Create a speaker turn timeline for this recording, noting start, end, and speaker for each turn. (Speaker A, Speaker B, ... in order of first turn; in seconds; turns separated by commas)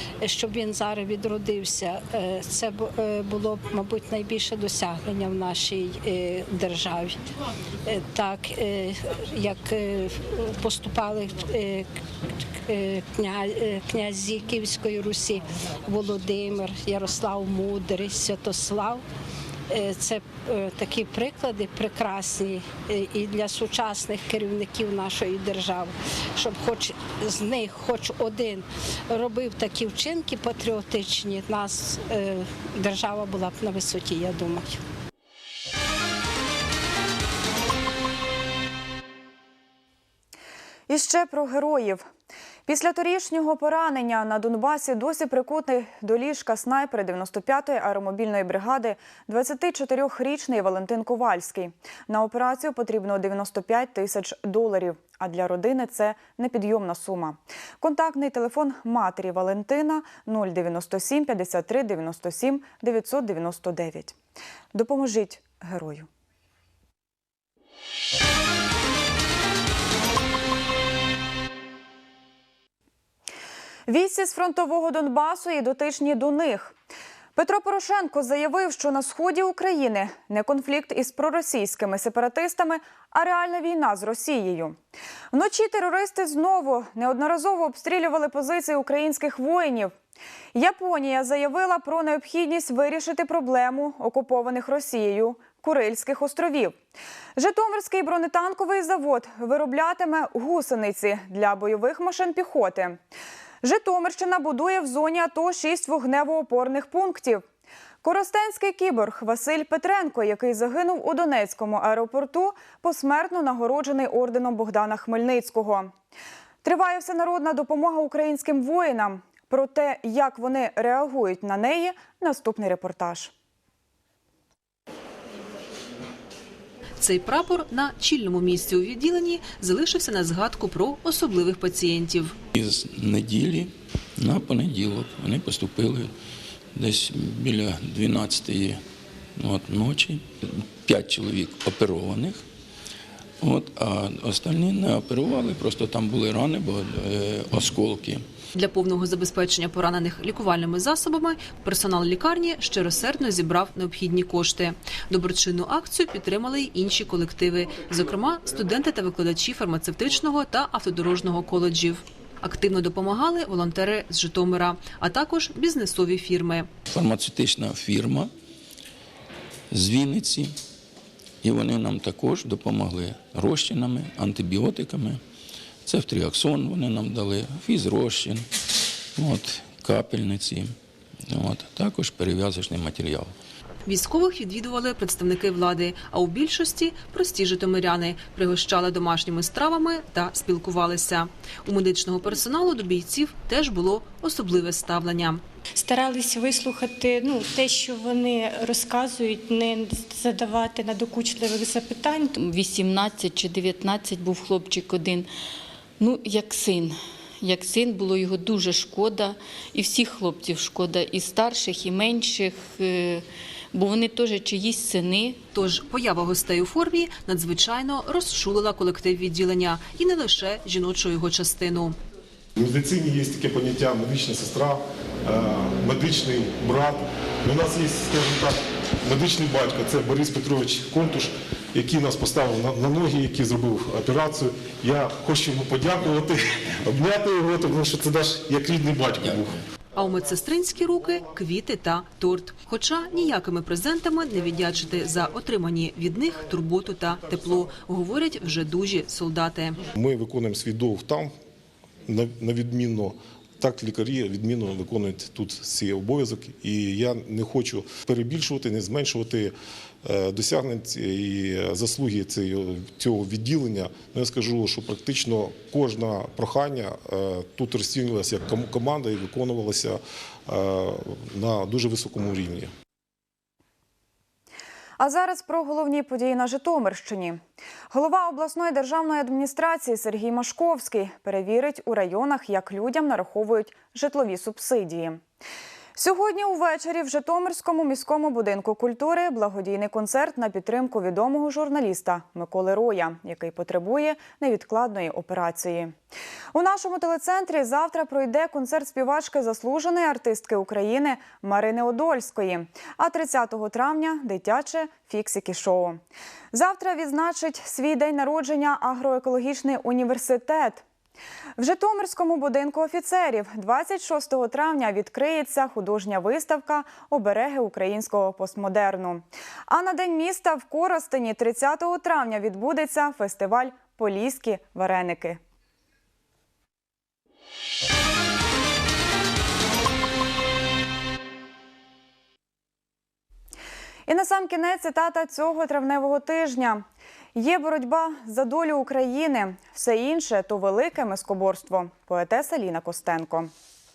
Speaker A: 0.2-7.2, Speaker A: 7.9-11.9, Speaker A: 12.7-19.0, Speaker A: 19.7-34.8, Speaker B: 40.9-42.0, Speaker B: 42.7-64.2, Speaker B: 64.7-66.1, Speaker B: 73.9-76.8, Speaker B: 77.4-84.8, Speaker B: 85.3-89.9, Speaker B: 90.5-96.8, Speaker B: 97.4-103.0, Speaker B: 103.6-107.5, Speaker B: 108.0-115.9, Speaker B: 116.6-123.3, Speaker C: 127.0-132.3, Speaker D: 132.6-136.1, Speaker D: 136.8-138.8, Speaker D: 139.4-142.4, Speaker D: 143.4-148.2, Speaker C: 148.6-166.7, Speaker D: 166.9-168.3, Speaker D: 169.7-170.5, Speaker D: 171.4-175.2, Speaker D: 175.9-178.4, Speaker D: 179.2-180.7, Speaker D: 181.3-183.3, Speaker C: 183.9-195.4, Speaker E: 195.8-202.3, Speaker F: 202.3-205.3, Speaker F: 206.0-215.4, Speaker C: 215.5-222.0, Speaker G: 222.6-239.6, Speaker C: 239.9-249.8, Speaker G: 249.9-251.3, Speaker G: 252.1-272.7, Speaker B: 275.0-285.2, Speaker B: 286.0-295.9, Speaker B: 296.5-306.0, Speaker B: 306.5-310.8, Speaker B: 311.6-325.4, Speaker B: 334.1-343.5